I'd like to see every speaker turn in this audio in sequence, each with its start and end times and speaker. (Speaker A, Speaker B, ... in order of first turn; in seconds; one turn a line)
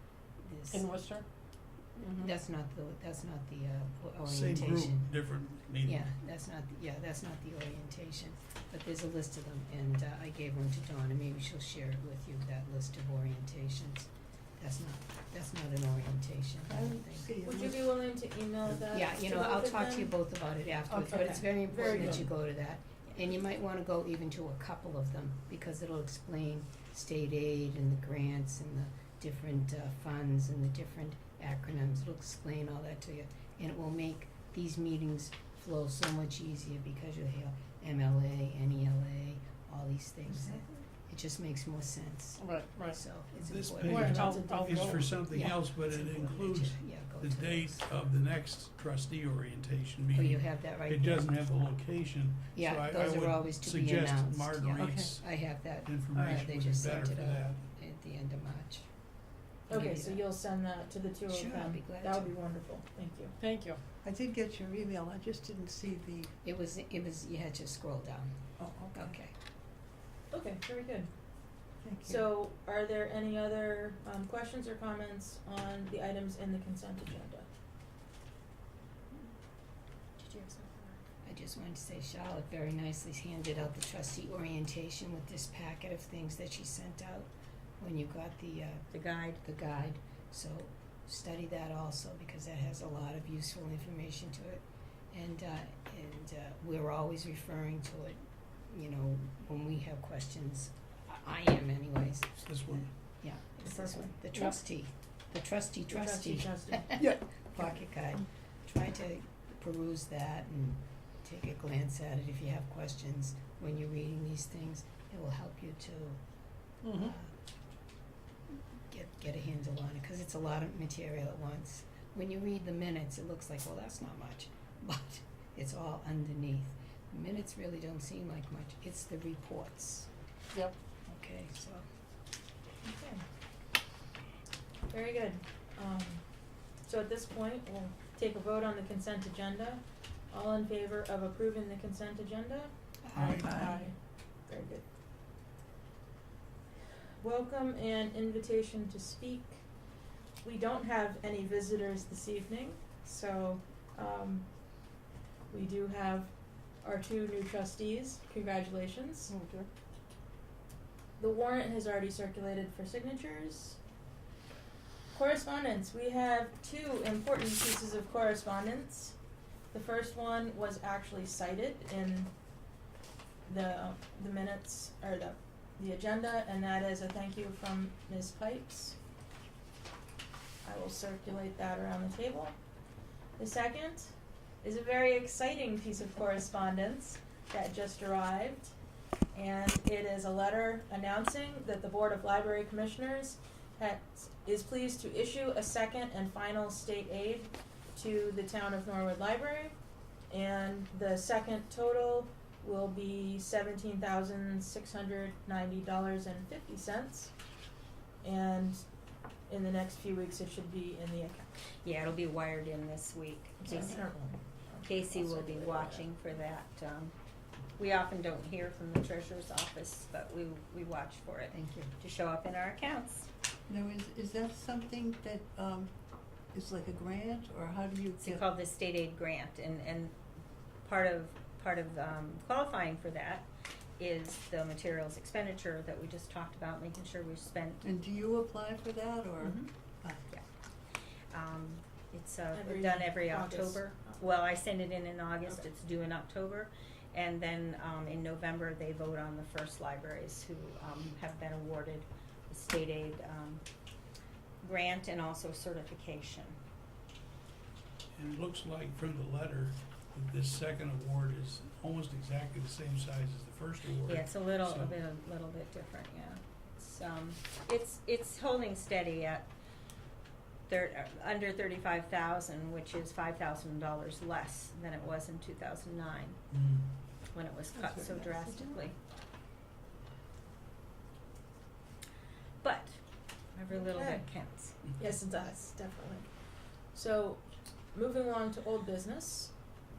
Speaker A: 0.4-0.9
Speaker B: 0.7-1.2
Speaker C: 2.0-2.3
Speaker A: 2.1-5.1
Speaker D: 4.4-5.9
Speaker A: 5.8-17.3
Speaker E: 16.7-17.9
Speaker F: 17.4-20.2
Speaker A: 18.9-47.9
Speaker F: 20.9-22.3
Speaker B: 42.4-43.0
Speaker D: 43.4-44.0
Speaker B: 43.8-45.2
Speaker F: 43.9-44.9
Speaker E: 44.3-44.9
Speaker D: 44.7-55.2
Speaker A: 50.1-51.3
Speaker A: 52.5-58.9
Speaker E: 54.7-55.5
Speaker D: 55.9-57.4
Speaker A: 59.7-60.2
Speaker F: 59.7-63.4
Speaker A: 61.3-62.3
Speaker B: 63.4-63.8
Speaker E: 64.0-66.3
Speaker A: 66.4-68.4
Speaker E: 68.8-69.0
Speaker A: 68.9-69.3
Speaker F: 70.3-71.1
Speaker E: 71.8-72.2
Speaker F: 72.0-77.5
Speaker C: 80.2-81.0
Speaker A: 81.2-116.2
Speaker C: 88.9-89.4
Speaker F: 103.6-104.2
Speaker F: 105.9-107.0
Speaker A: 116.9-117.3
Speaker A: 118.8-130.1
Speaker A: 131.1-131.8
Speaker F: 132.8-133.2
Speaker F: 134.9-136.2
Speaker F: 136.8-143.9
Speaker A: 143.0-143.6
Speaker E: 143.2-143.8
Speaker D: 143.3-143.7
Speaker F: 144.5-144.8
Speaker F: 147.2-149.6
Speaker F: 150.4-154.4
Speaker F: 155.5-156.3
Speaker F: 156.8-159.3
Speaker B: 159.3-159.7
Speaker F: 161.2-163.8
Speaker F: 165.1-169.1
Speaker F: 169.7-172.3
Speaker F: 173.4-179.0
Speaker F: 180.6-182.5
Speaker F: 183.4-184.1
Speaker F: 184.6-188.7
Speaker F: 189.3-199.7
Speaker F: 200.3-207.3
Speaker F: 208.2-208.8
Speaker F: 209.5-211.5
Speaker C: 211.8-214.1
Speaker F: 213.6-216.1
Speaker C: 214.8-217.1
Speaker C: 217.8-223.3
Speaker A: 221.5-221.9
Speaker E: 223.7-225.9
Speaker E: 226.5-228.4
Speaker C: 228.2-230.1
Speaker C: 230.8-233.5
Speaker C: 234.0-237.8
Speaker E: 237.8-240.2
Speaker C: 241.3-253.6
Speaker F: 242.5-244.3
Speaker C: 254.6-256.6
Speaker D: 258.1-264.2
Speaker C: 264.0-269.5
Speaker C: 270.7-276.4
Speaker C: 277.3-278.9
Speaker C: 282.6-283.0
Speaker C: 283.5-284.8
Speaker F: 283.7-284.3
Speaker F: 285.0-286.3
Speaker F: 286.9-289.5